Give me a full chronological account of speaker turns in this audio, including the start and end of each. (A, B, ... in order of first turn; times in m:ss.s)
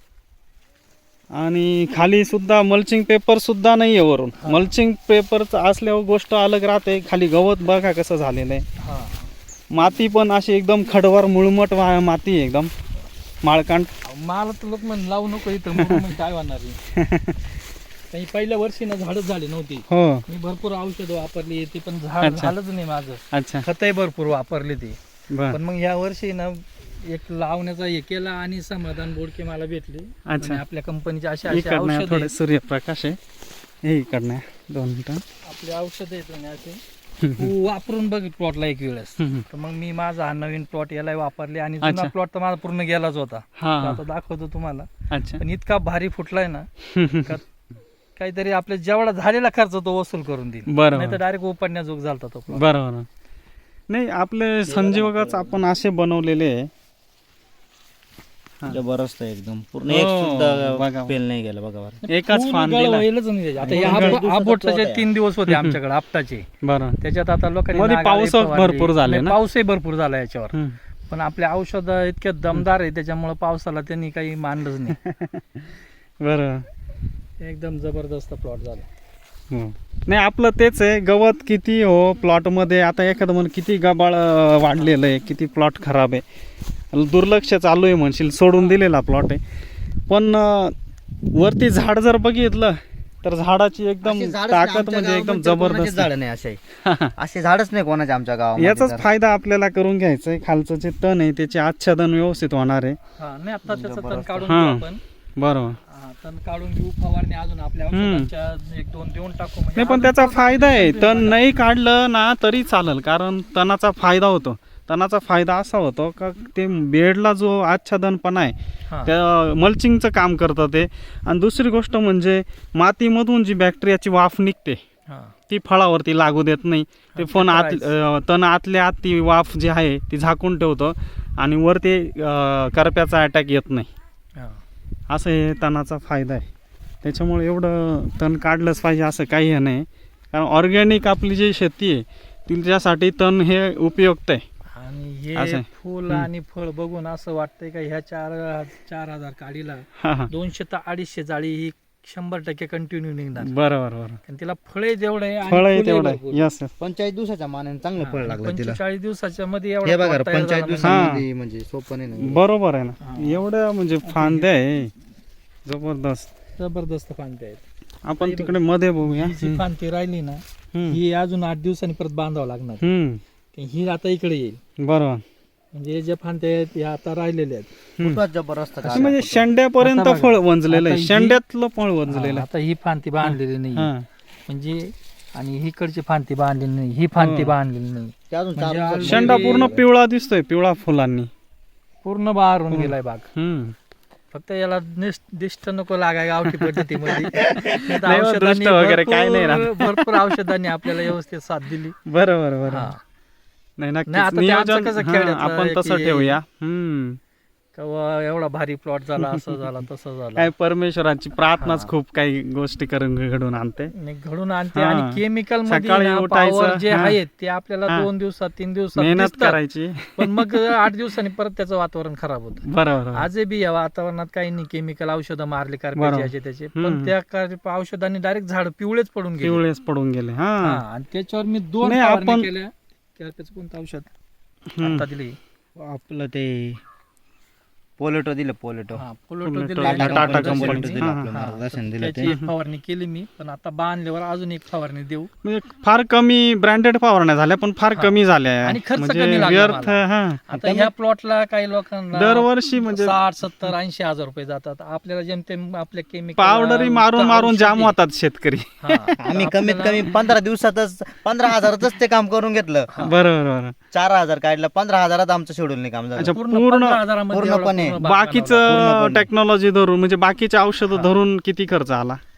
0:01.3-0:08.6 A
0:04.4-0:04.7 B
0:08.8-0:09.3 B
0:09.7-0:12.7 A
0:13.4-0:13.9 A
0:14.0-0:16.8 B
0:17.0-0:17.4 A
0:18.1-0:25.0 B
0:19.9-0:20.2 A
0:22.2-0:22.5 A
0:23.3-0:23.6 A
0:25.3-0:25.6 A
0:25.5-0:32.3 B
0:30.3-0:30.6 A
0:31.5-0:33.2 A
0:33.8-0:35.2 A
0:35.4-0:36.8 B
0:37.2-0:37.5 A
0:37.4-0:47.4 B
0:41.8-0:42.1 A
0:43.6-0:44.0 A
0:45.1-0:45.4 A
0:46.9-0:47.3 A
0:48.2-0:52.6 B
0:50.7-0:51.2 A
0:52.5-0:53.0 A
0:53.9-0:56.7 A
0:54.7-0:55.6 C
0:58.7-1:02.0 C
0:59.9-1:01.1 A
1:02.0-1:06.5 B
1:02.1-1:03.0 A
1:03.6-1:05.1 C
1:03.7-1:04.2 A
1:05.5-1:05.7 A
1:06.6-1:07.0 A
1:07.0-1:10.6 B
1:07.7-1:09.4 A
1:11.1-1:15.0 B
1:15.0-1:15.4 A
1:16.2-1:16.6 A
1:17.4-1:18.9 B
1:19.5-1:26.2 A
1:26.9-1:29.4 A
1:30.1-1:30.7 A
1:31.3-1:36.1 A
1:34.0-1:36.6 C
1:36.8-1:37.1 A
1:37.2-1:39.1 C
1:38.6-1:43.0 A
1:43.2-1:45.0 B
1:43.6-1:44.5 C
1:44.4-1:44.8 A
1:45.4-1:45.8 A
1:45.8-1:51.4 B
1:47.9-1:48.3 A
1:49.8-2:04.8 A
1:58.9-1:59.1 B
2:05.1-2:05.3 B
2:05.5-2:13.9 A
2:07.1-2:07.9 B
2:14.4-2:14.6 B
2:15.1-2:16.4 A
2:17.0-2:24.4 A
2:24.7-2:33.5 B
2:25.4-2:26.3 A
2:30.0-2:30.3 A
2:33.4-2:34.2 A
2:34.2-2:36.4 B
2:35.5-2:36.7 A
2:36.8-2:38.8 C
2:38.0-2:41.1 B
2:39.8-2:42.4 C
2:40.8-2:41.2 A
2:42.2-2:44.9 A
2:43.0-2:43.4 B
2:44.0-2:44.5 B
2:45.6-2:46.3 A
2:46.6-2:47.6 B
2:48.0-2:49.6 A
2:48.2-2:52.9 B
2:52.8-2:53.2 A
2:53.5-2:54.6 B
2:54.8-2:55.2 A
2:55.7-2:57.7 B
2:58.0-2:59.5 C
2:58.8-3:02.4 A
2:59.8-3:01.4 B
3:02.1-3:03.9 B
3:03.2-3:04.0 A
3:04.5-3:09.8 B
3:07.2-3:07.5 A
3:08.3-3:09.8 C
3:09.0-3:11.3 A
3:12.0-3:13.3 B
3:12.7-3:13.7 A
3:14.3-3:22.0 B
3:16.5-3:16.8 A
3:17.7-3:20.4 A
3:22.1-3:22.9 A
3:22.7-3:23.0 B
3:23.8-3:27.2 A
3:24.1-3:26.4 B
3:27.7-3:30.5 B
3:29.2-3:29.6 A
3:30.4-3:33.9 A
3:31.6-3:31.9 B
3:33.9-3:39.6 B
3:34.8-3:37.2 A
3:39.0-3:40.5 A
3:40.2-3:49.6 B
3:42.7-3:43.2 A
3:46.0-3:47.1 A
3:49.4-3:50.8 A
3:50.6-3:54.1 B
3:51.8-3:52.5 A
3:54.8-3:55.0 A
3:54.8-3:55.4 B
3:55.8-3:56.8 C
3:58.0-3:59.0 C
3:58.9-4:05.3 B
3:59.4-4:01.3 A
3:59.8-4:02.3 C
4:05.4-4:10.4 A
4:08.0-4:18.0 B
4:10.5-4:10.9 C
4:12.1-4:13.2 A
4:16.4-4:19.2 A
4:18.8-4:20.1 B
4:19.2-4:23.1 C
4:23.0-4:23.7 A
4:23.9-4:26.3 C
4:26.2-4:27.0 A
4:26.2-4:28.8 B
4:27.3-4:28.0 C
4:28.0-4:32.2 A
4:28.6-4:29.3 C
4:30.9-4:31.1 B